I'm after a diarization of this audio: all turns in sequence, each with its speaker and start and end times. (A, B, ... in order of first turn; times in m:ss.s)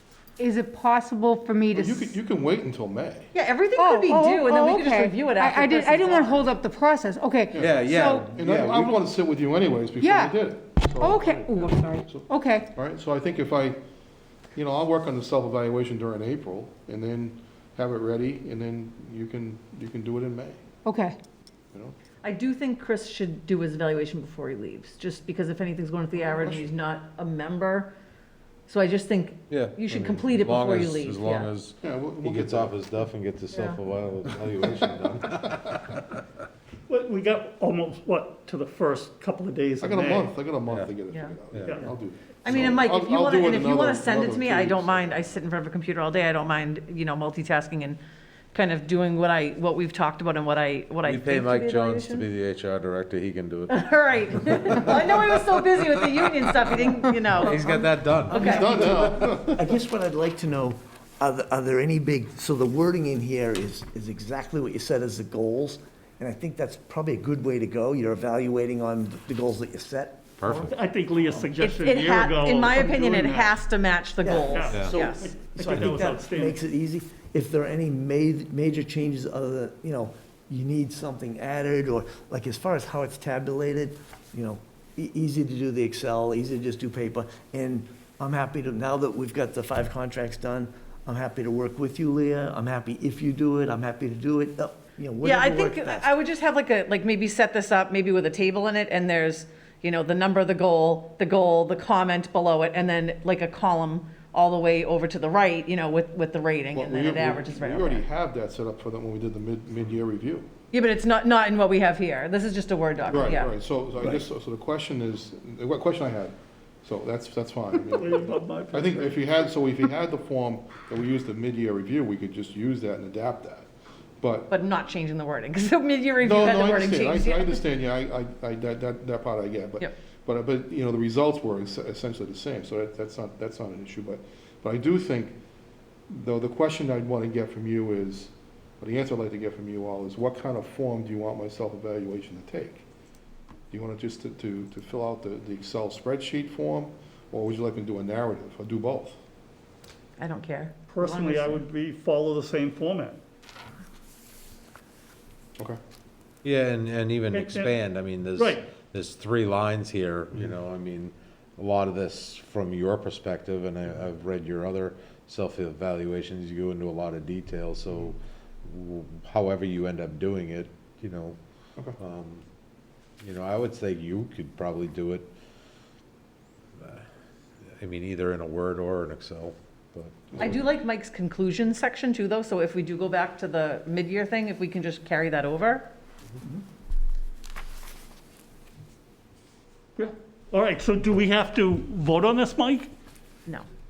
0:00.4-0:02.2 A
0:01.7-0:03.3 B
0:03.3-0:06.5 C
0:03.8-0:08.3 A
0:07.5-0:13.8 B
0:07.6-0:08.9 D
0:10.0-0:10.4 A
0:11.0-0:12.7 A
0:14.6-0:20.6 B
0:20.8-0:21.2 A
0:22.2-0:27.9 C
0:26.2-0:26.7 B
0:28.7-0:31.5 C
0:29.5-0:36.0 D
0:31.8-0:32.8 B
0:33.5-0:33.8 C
0:36.9-0:40.3 E
0:39.8-0:45.3 B
0:41.1-0:41.4 C
0:41.5-0:41.8 D
0:41.7-0:41.9 E
0:42.4-0:48.0 C
0:48.5-0:52.3 C
0:51.0-0:55.6 D
0:53.7-0:58.9 C
0:57.3-0:58.6 D
0:58.3-1:10.7 F
0:58.4-0:59.8 B
1:10.4-1:10.8 D
1:10.7-1:13.5 E
1:11.6-1:15.3 C
1:14.2-1:36.1 F
1:14.4-1:16.6 E
1:35.2-1:48.1 C
1:46.7-1:50.5 B
1:50.7-1:53.5 C
1:53.1-2:03.7 B
1:57.9-1:59.3 E
2:04.2-2:04.5 B
2:04.5-2:07.6 C
2:06.2-2:15.4 B
2:16.1-2:22.8 B
2:23.7-2:29.2 B
2:30.2-2:31.6 C
2:30.9-2:33.2 E
2:36.4-2:51.4 D
2:37.3-2:37.7 E
2:38.4-2:38.7 E
2:52.0-2:52.4 D
2:53.2-2:55.3 D
2:56.8-2:57.0 D
2:57.8-3:00.6 D
3:00.3-3:00.6 B
3:00.4-3:05.9 C
3:10.0-3:12.9 E